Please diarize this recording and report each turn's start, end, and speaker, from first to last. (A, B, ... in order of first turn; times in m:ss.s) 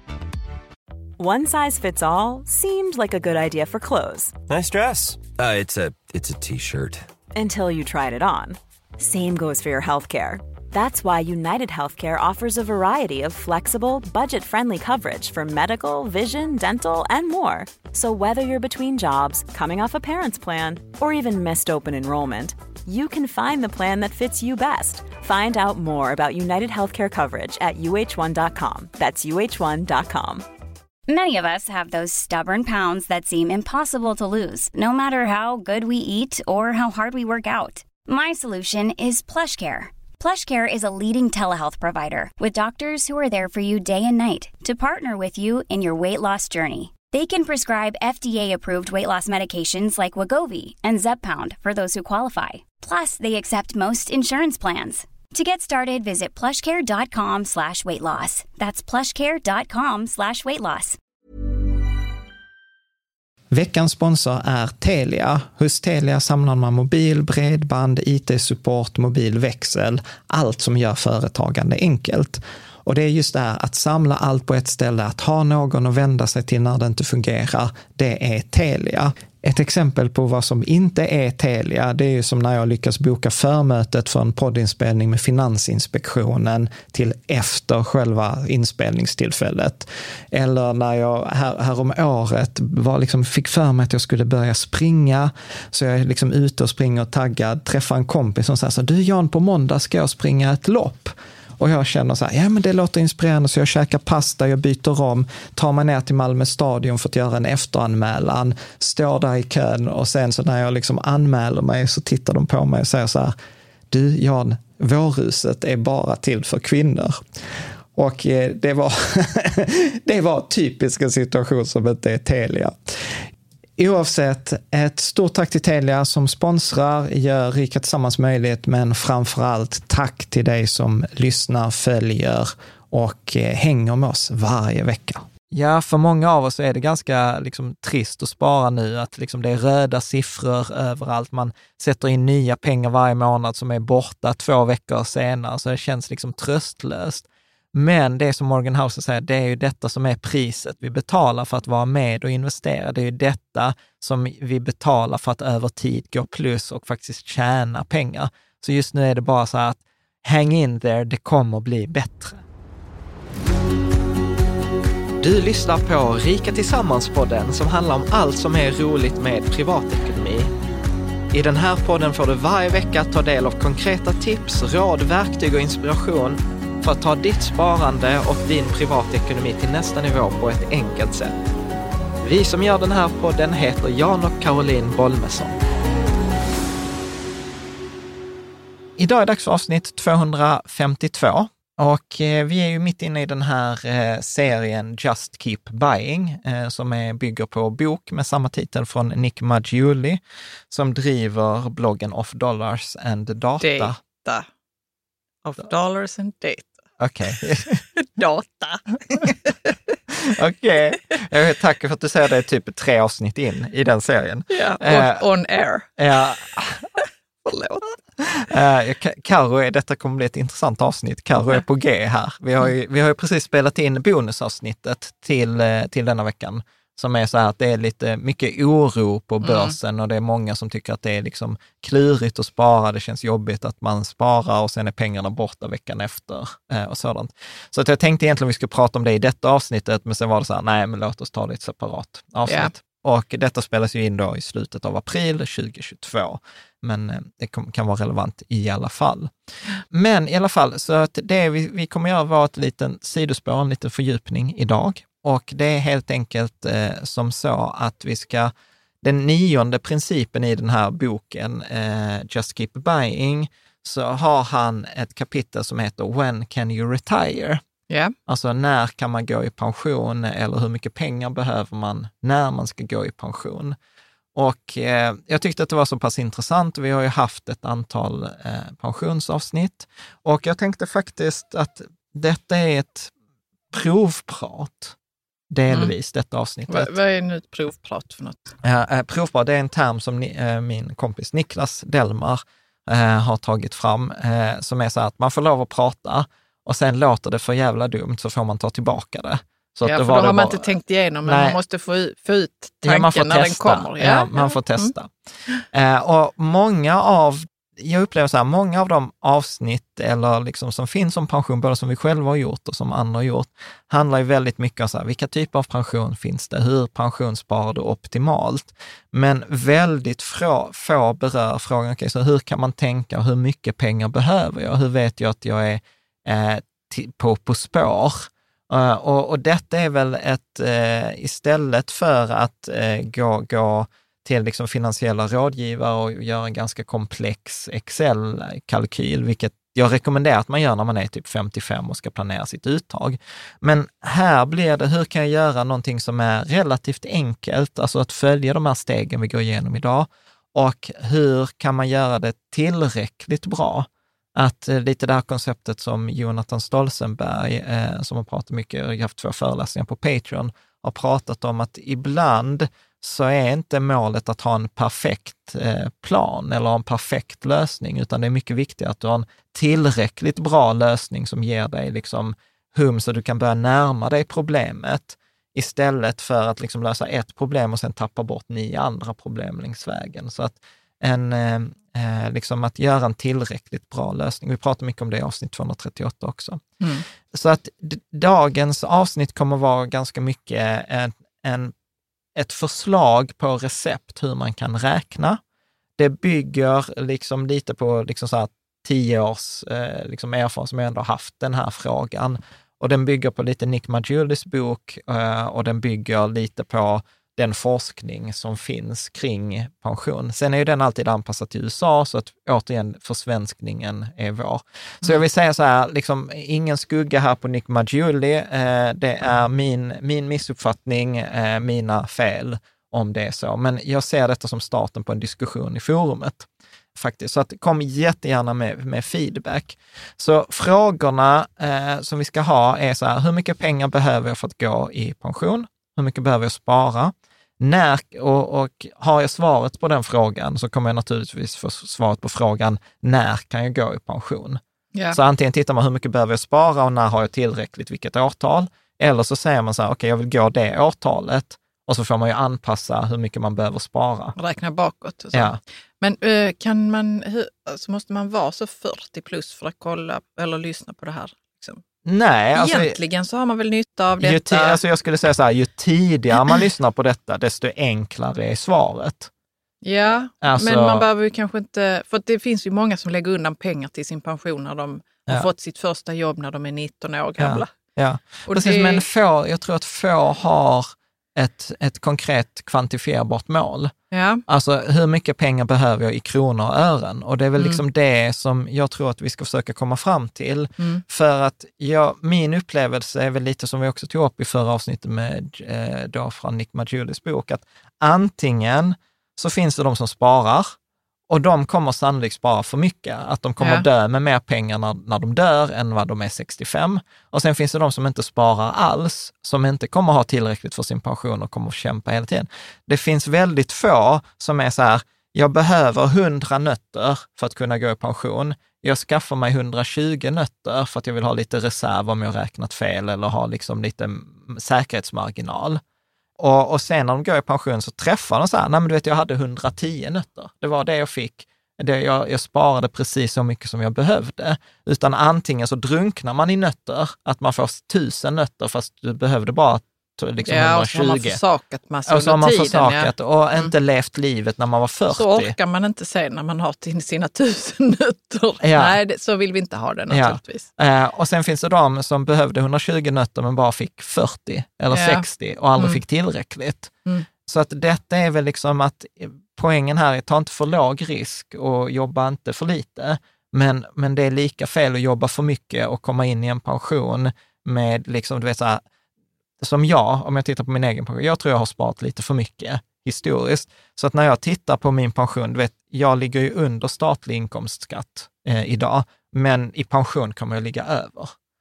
0:01.2-0:04.4 A
0:04.4-0:07.1 B
0:07.3-0:30.4 A
0:31.1-1:01.0 C
1:03.5-1:53.3 D
1:53.9-1:57.2 D
1:57.9-2:02.7 D
2:03.8-2:42.4 D
2:45.2-2:50.5 D
2:51.3-3:01.4 D
3:02.2-3:05.6 D
3:09.0-3:24.0 D
3:23.6-3:24.5 E
3:25.4-3:26.7 E
3:27.0-3:27.8 D
3:28.0-3:29.9 E
3:30.2-3:35.2 D
3:34.5-3:36.0 E
3:36.0-3:36.9 D
3:37.0-3:37.8 E
3:38.2-4:09.3 D
3:49.4-3:49.7 E
4:02.4-4:02.7 E
4:09.9-4:27.6 D
4:27.9-4:28.1 E
4:28.3-4:33.8 D
4:34.3-4:43.1 D
4:43.7-4:45.0 D
4:45.5-4:46.9 D
4:46.7-4:48.5 E
4:48.6-5:00.6 D
4:59.8-5:04.9 E
5:01.2-5:01.6 D
5:02.8-5:05.1 D
5:05.7-6:26.6 D
6:26.8-6:27.0 E
6:27.3-6:31.7 D
6:32.4-6:35.4 D
6:36.0-7:34.4 D
7:34.4-7:41.8 E
7:35.3-7:35.6 D
7:42.0-7:43.0 D
7:42.5-7:44.8 E
7:44.2-7:49.3 D
7:49.8-7:57.7 E
7:50.4-7:51.0 D
7:57.4-8:03.9 D
7:58.5-7:59.0 E
8:04.1-8:04.4 E
8:04.5-8:20.7 D
8:10.8-8:11.0 E
8:21.3-8:45.8 D
8:23.6-8:23.8 E
8:46.4-9:01.4 D
9:00.4-9:03.7 E
9:02.0-9:05.5 D
9:05.1-9:10.7 E
9:08.6-9:09.0 D
9:10.1-9:16.9 D
9:14.9-9:15.2 E
9:15.8-9:16.0 E
9:17.5-9:28.8 D
9:29.6-9:41.3 D